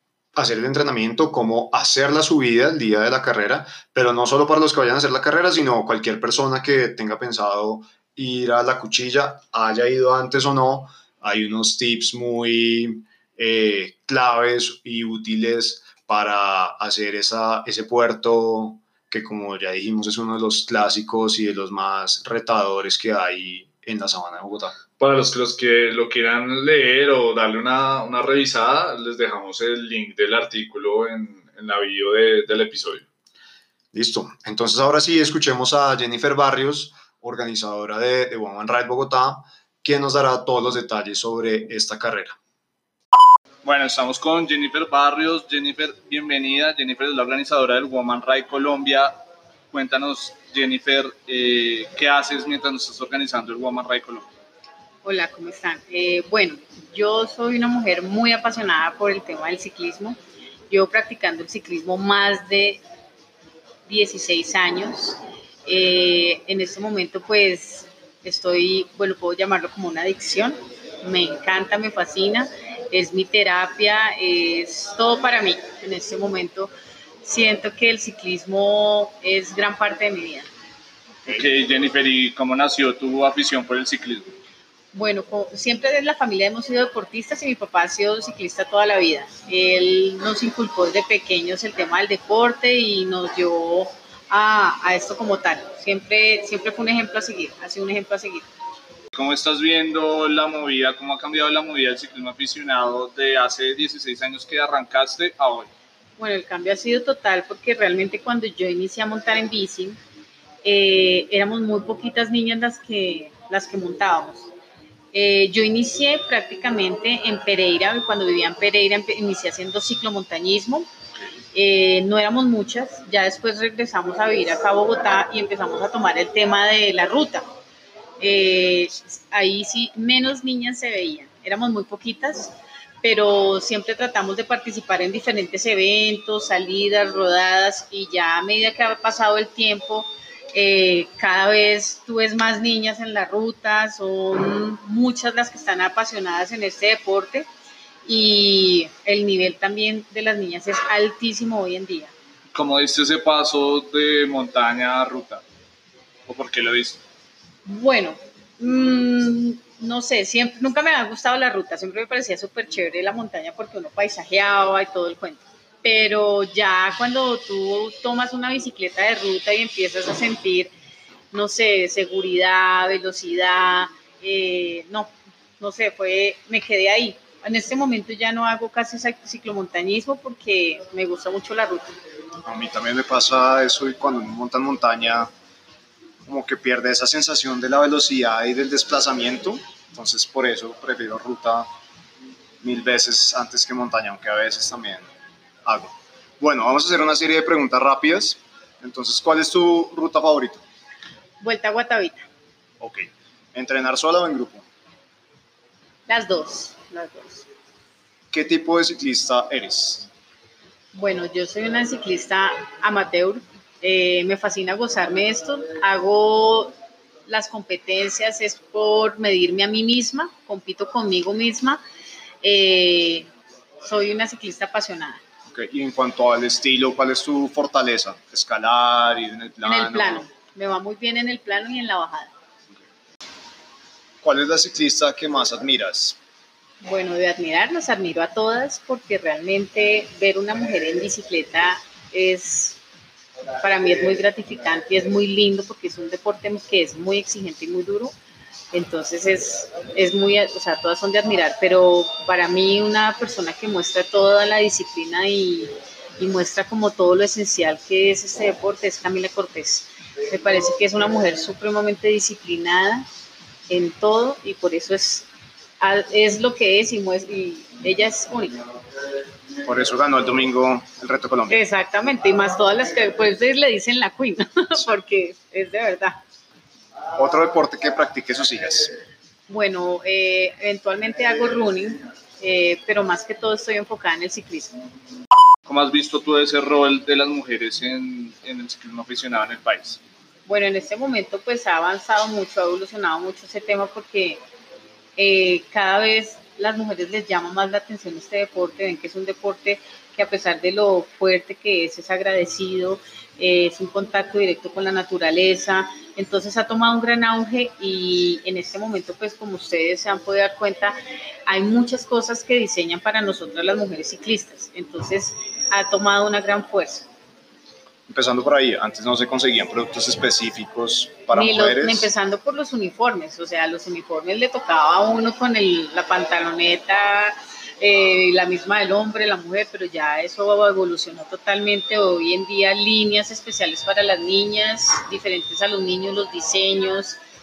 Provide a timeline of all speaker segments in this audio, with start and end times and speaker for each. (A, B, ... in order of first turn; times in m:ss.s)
0:00.4-0:24.8 A
0:25.0-0:33.0 B
0:33.9-0:42.4 A
0:43.6-0:49.2 B
0:49.7-0:54.3 B
0:55.0-1:00.2 C
1:00.7-1:02.8 C
1:03.9-1:16.7 C
1:17.2-1:20.5 C
1:21.3-1:24.3 B
1:24.9-1:38.5 C
1:39.1-1:45.7 B
1:46.2-1:50.0 C
1:50.6-1:54.5 C
1:55.1-2:00.9 C
2:01.5-2:07.4 C
2:08.2-2:27.5 C
2:28.1-2:32.1 C
2:32.5-2:35.4 B
2:36.3-2:37.0 B
2:37.6-2:50.7 C
2:51.3-3:01.9 C
3:02.4-3:05.3 A
3:06.2-3:11.7 A
3:12.6-3:15.1 A
3:15.6-3:20.6 A
3:21.4-3:22.3 C
3:22.8-3:24.7 A
3:26.1-3:27.4 C
3:28.3-3:30.1 A
3:30.9-3:36.7 C
3:37.3-3:41.8 C
3:42.4-3:43.3 C
3:43.8-3:45.2 C
3:45.5-3:50.2 A
3:49.6-3:52.3 C
3:54.2-3:56.2 A
3:56.8-4:02.8 C
4:03.6-4:08.2 C
4:08.7-4:23.1 C
4:23.7-4:25.3 C
4:25.8-4:28.6 C
4:29.6-4:31.6 A
4:31.5-4:36.2 C
4:37.2-4:38.9 A
4:39.5-4:44.7 C
4:45.7-4:50.0 B
4:50.4-4:54.4 C
4:55.2-5:17.1 C
5:18.1-5:22.1 A
5:21.3-5:37.2 C